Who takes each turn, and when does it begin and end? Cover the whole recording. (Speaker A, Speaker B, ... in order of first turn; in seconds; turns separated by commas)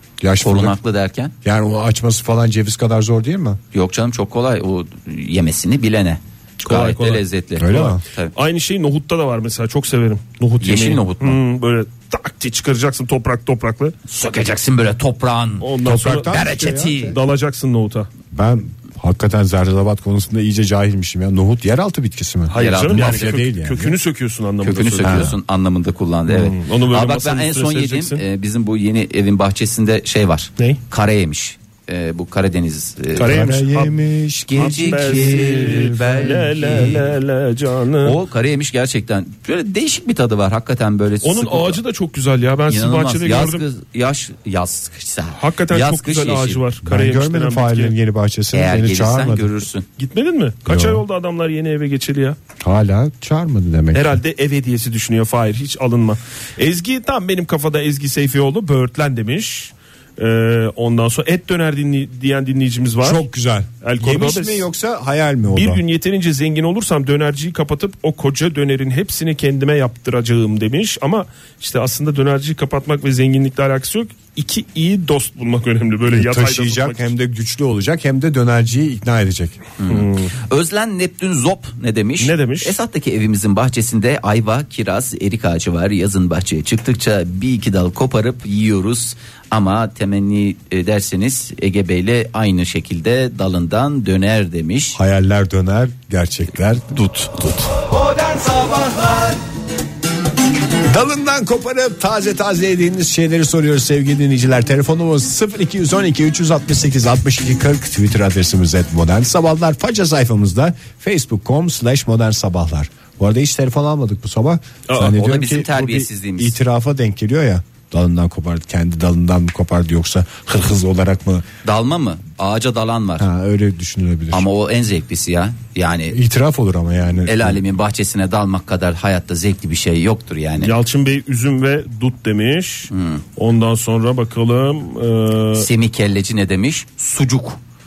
Speaker A: 0.2-0.8, Speaker B: 0.4-1.3, Speaker A: 1.4-3.6, Speaker B: 3.7-8.3, Speaker C: 6.6-13.9, Speaker A: 7.6-8.0, Speaker B: 10.6-11.4, Speaker B: 14.1-15.7, Speaker C: 15.6-18.1, Speaker A: 15.8-17.1, Speaker B: 16.2-17.1, Speaker A: 18.3-24.0, Speaker C: 22.5-25.3, Speaker B: 22.6-23.4, Speaker B: 24.6-33.5, Speaker A: 25.0-25.3, Speaker C: 26.3-28.2, Speaker C: 33.1-34.0, Speaker A: 33.2-36.1, Speaker B: 34.5-37.0, Speaker C: 34.5-38.2, Speaker B: 38.0-41.8, Speaker C: 41.2-43.6, Speaker B: 42.7-46.6, Speaker C: 45.3-47.9, Speaker A: 46.8-49.6, Speaker B: 48.5-49.9, Speaker C: 50.0-52.4, Speaker A: 50.6-51.0, Speaker A: 52.6-54.2, Speaker C: 53.9-63.2, Speaker A: 63.0-65.8, Speaker C: 63.8-64.7, Speaker C: 65.5-77.1, Speaker A: 76.1-79.6, Speaker B: 79.8-95.0, Speaker C: 79.9-80.3, Speaker C: 82.2-82.7, Speaker A: 95.0-97.5, Speaker B: 96.9-97.7, Speaker A: 100.8-121.4, Speaker C: 114.9-115.2, Speaker B: 115.0-116.5, Speaker B: 121.6-123.3, Speaker A: 123.2-124.4, Speaker B: 124.3-126.2, Speaker A: 126.1-127.6, Speaker B: 127.2-130.7, Speaker C: 130.6-135.7, Speaker B: 132.9-133.2, Speaker B: 135.6-137.6